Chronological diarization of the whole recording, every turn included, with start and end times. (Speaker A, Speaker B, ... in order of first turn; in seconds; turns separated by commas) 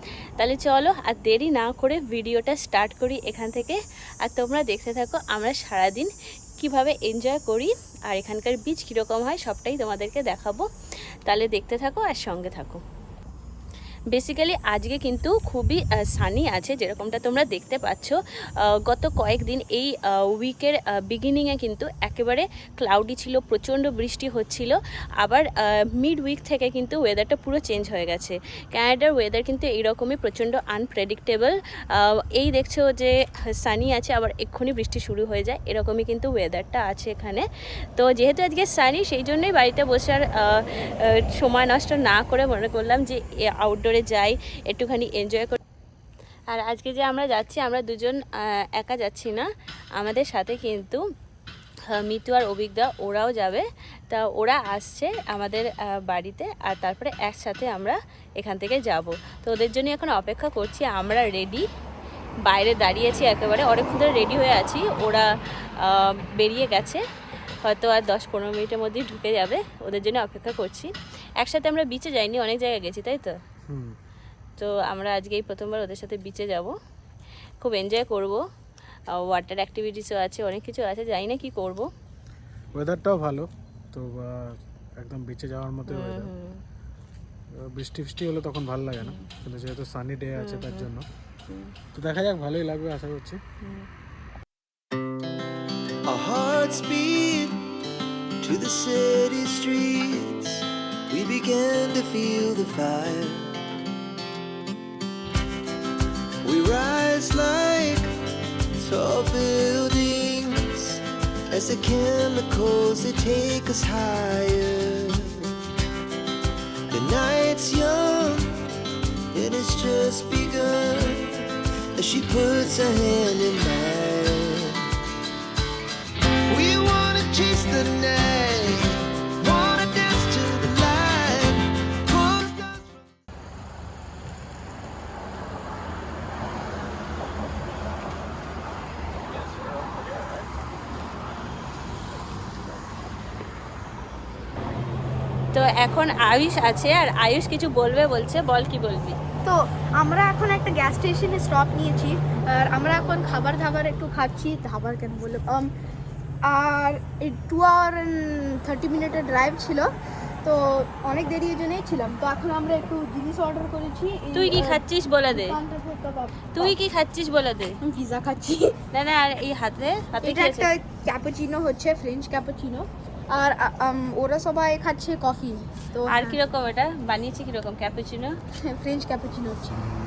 Speaker A: 0.4-10.6, Speaker A: 11.3-12.8, Speaker A: 14.1-37.4, Speaker A: 38.0-40.6, Speaker A: 41.4-45.6, Speaker A: 46.5-48.2, Speaker A: 48.8-49.5, Speaker A: 50.0-51.0, Speaker A: 51.9-61.6, Speaker A: 62.5-65.2, Speaker A: 65.8-67.0, Speaker A: 67.6-73.3, Speaker B: 73.7-73.9, Speaker A: 74.6-76.7, Speaker A: 77.6-78.4, Speaker A: 79.3-81.8, Speaker B: 82.7-84.3, Speaker B: 85.0-86.3, Speaker A: 85.8-86.6, Speaker B: 87.7-91.0, Speaker A: 89.0-89.2, Speaker A: 90.3-90.9, Speaker A: 91.5-91.7, Speaker B: 91.9-93.4, Speaker A: 93.6-93.9, Speaker C: 96.0-97.6, Speaker C: 98.4-103.4, Speaker C: 106.4-108.1, Speaker C: 108.8-115.5, Speaker C: 116.9-118.5, Speaker C: 119.3-124.9, Speaker C: 126.5-132.9, Speaker A: 145.5-149.2, Speaker D: 149.4-155.7, Speaker D: 156.4-159.9, Speaker D: 160.4-166.7, Speaker A: 164.3-165.6, Speaker A: 166.5-167.8, Speaker D: 167.8-168.8, Speaker A: 168.9-170.7, Speaker D: 170.2-176.4, Speaker A: 176.1-178.3, Speaker D: 178.6-179.9